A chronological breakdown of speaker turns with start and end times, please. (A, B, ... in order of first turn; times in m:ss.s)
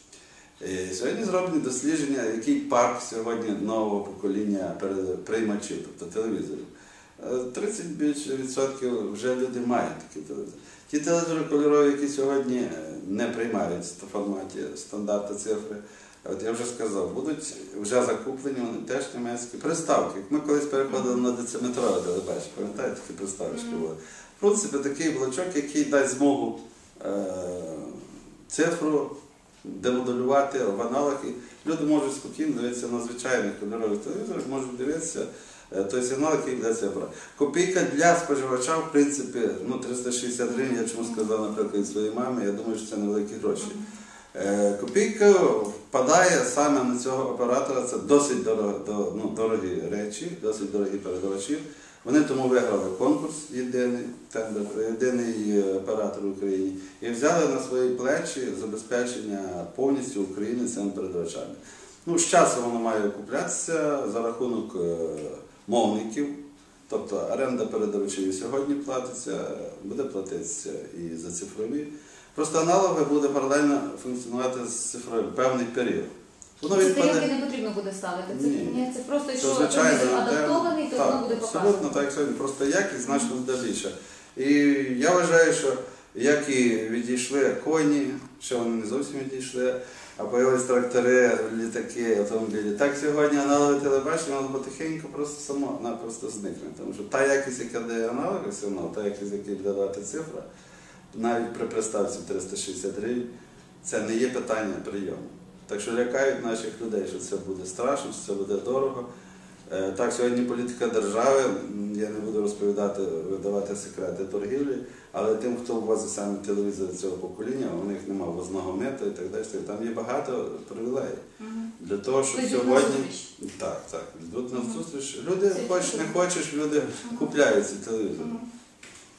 0:00.6-0:29.1 A
0:20.9-0:21.2 B
0:23.5-0:23.8 B
0:29.6-0:43.8 A
0:44.3-1:06.3 A
1:06.9-1:17.2 A
1:16.7-1:22.0 B
1:18.3-1:40.4 A
1:41.1-1:43.3 A
1:43.8-1:49.0 A
1:49.7-2:01.2 A
2:01.4-2:01.7 B
2:01.8-2:08.4 A
2:02.3-2:03.3 B
2:04.5-2:04.8 B
2:05.5-2:06.2 B
2:07.0-2:07.3 B
2:08.2-2:08.4 B